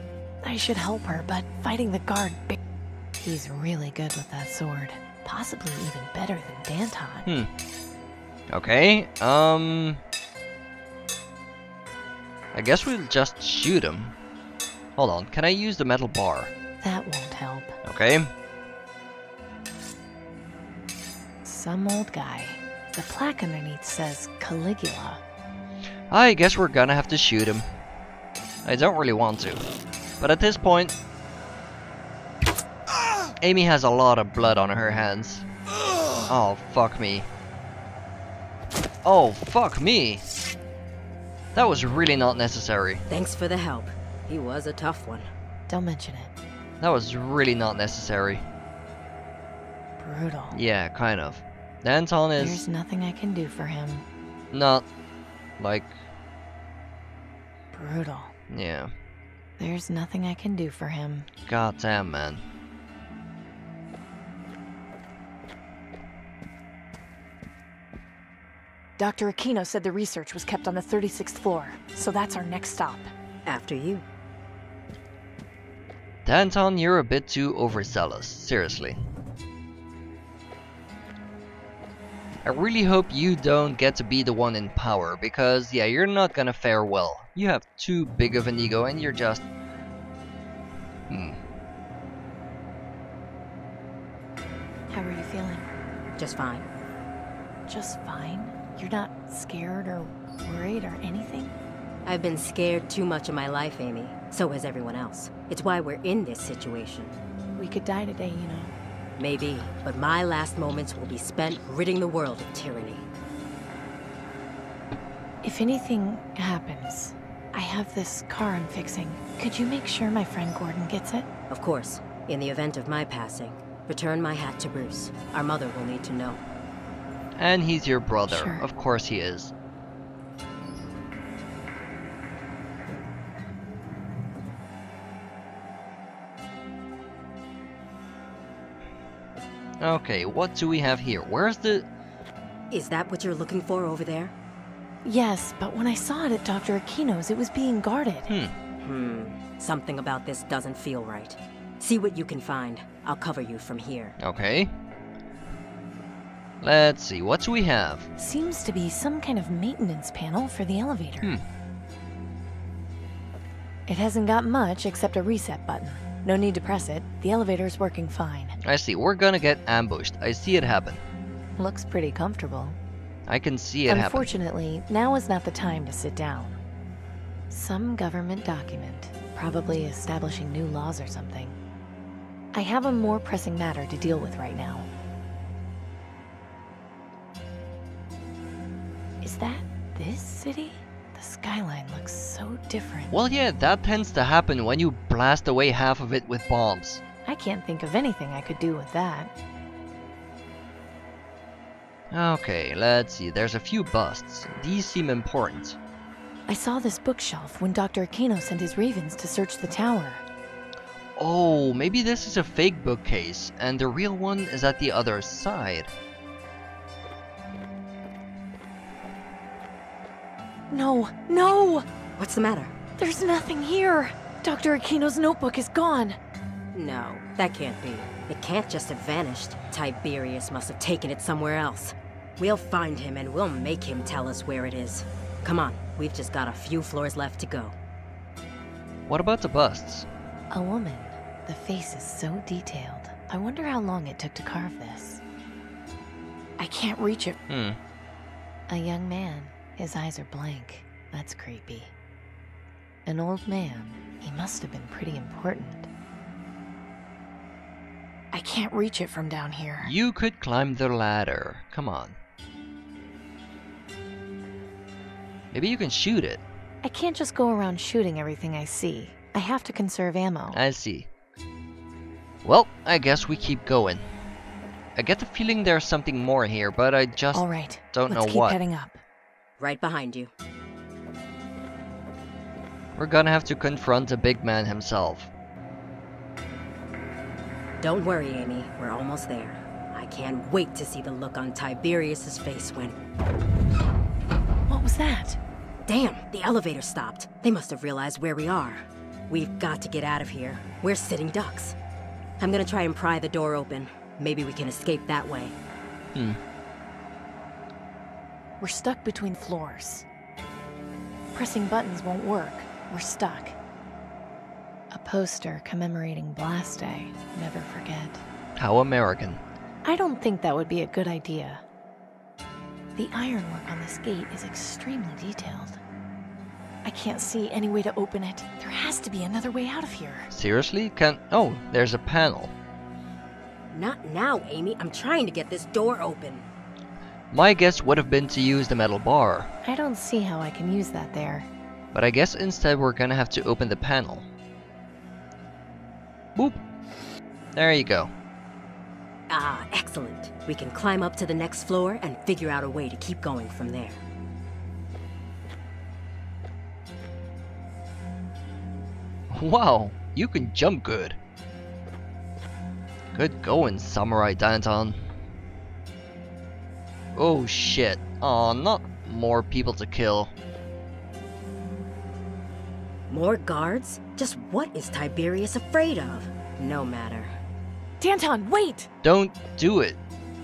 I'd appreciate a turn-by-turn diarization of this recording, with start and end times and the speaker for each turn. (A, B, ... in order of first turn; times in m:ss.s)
0:00.4-0:02.6 A
0:03.2-0:07.3 A
0:08.5-0:10.0 B
0:12.5-0:14.1 B
0:15.0-0:16.5 B
0:16.8-0:17.8 A
0:17.8-0:18.3 B
0:21.4-0:25.2 A
0:26.1-0:27.7 B
0:28.6-0:29.6 B
0:30.2-0:30.9 B
0:33.4-0:35.5 B
0:36.3-0:37.3 B
0:39.0-0:40.2 B
0:41.5-0:43.0 B
0:43.1-0:45.3 C
0:45.7-0:46.3 A
0:46.8-0:48.4 B
0:50.0-0:50.6 A
0:50.5-0:52.6 B
0:52.4-0:54.0 A
0:54.5-0:54.8 B
0:55.6-0:56.0 B
0:57.7-0:58.3 A
0:58.5-0:58.9 B
0:59.6-1:01.3 A
1:01.5-1:02.4 B
1:09.0-1:13.1 A
1:13.4-1:14.0 C
1:16.2-1:19.0 B
1:22.4-1:29.4 B
1:31.1-1:31.4 B
1:34.9-1:35.8 A
1:36.2-1:36.6 C
1:37.7-1:41.5 A
1:42.0-1:47.1 C
1:47.6-1:48.7 A
1:49.2-1:53.0 C
1:55.4-2:01.3 A
2:01.5-2:06.4 C
2:07.4-2:09.5 B
2:08.3-2:08.6 A
2:19.8-2:21.9 B
2:22.7-2:24.3 C
2:25.0-2:28.3 A
2:28.3-2:28.5 B
2:28.8-2:34.2 C
2:34.2-2:34.7 B
2:36.6-2:38.1 B
2:38.2-2:41.4 A
2:43.9-2:48.6 A
2:48.6-2:51.0 B
2:51.6-2:52.8 A
2:53.3-2:54.3 B
2:53.9-2:56.6 A
2:57.5-3:01.6 A
3:02.5-3:04.9 A
3:09.2-3:13.2 A
3:13.1-3:17.0 B
3:17.2-3:19.3 A
3:22.1-3:25.8 B
3:26.5-3:30.2 A
3:31.2-3:35.9 B
3:40.7-3:41.8 A
3:42.2-3:42.7 C
3:43.0-3:46.2 A
3:46.7-3:57.7 C
3:59.1-4:00.0 B
4:00.5-4:05.2 A
4:06.6-4:07.4 A
4:07.5-4:07.8 B
4:08.7-4:11.9 A
4:13.0-4:15.9 A
4:18.3-4:19.9 A
4:19.8-4:22.2 B
4:25.5-4:26.4 B
4:26.8-4:30.6 A
4:30.5-4:31.1 B
4:32.4-4:34.0 B
4:35.0-4:38.6 B
4:37.3-4:39.0 A
4:39.6-4:40.3 C
4:43.0-4:45.3 B
4:47.8-4:53.0 C
4:54.7-4:55.4 A
4:55.8-5:01.7 C
5:02.4-5:05.5 C
5:08.6-5:10.0 A
5:11.3-5:13.6 A
5:14.9-5:18.2 A
5:18.6-5:19.4 B
5:19.8-5:21.6 A
5:22.9-5:25.8 A
5:26.8-5:30.3 A
5:30.3-5:32.5 B
5:33.7-5:36.4 C
5:37.3-5:39.5 B
5:39.6-5:41.5 A
5:41.9-5:44.3 B
5:46.4-5:46.6 B
5:47.5-5:48.1 B
5:49.3-5:54.0 C
5:59.3-6:01.2 B
6:03.1-6:05.0 B
6:07.1-6:10.3 B
6:13.1-6:17.3 C
6:18.0-6:18.9 A
6:19.0-6:20.0 B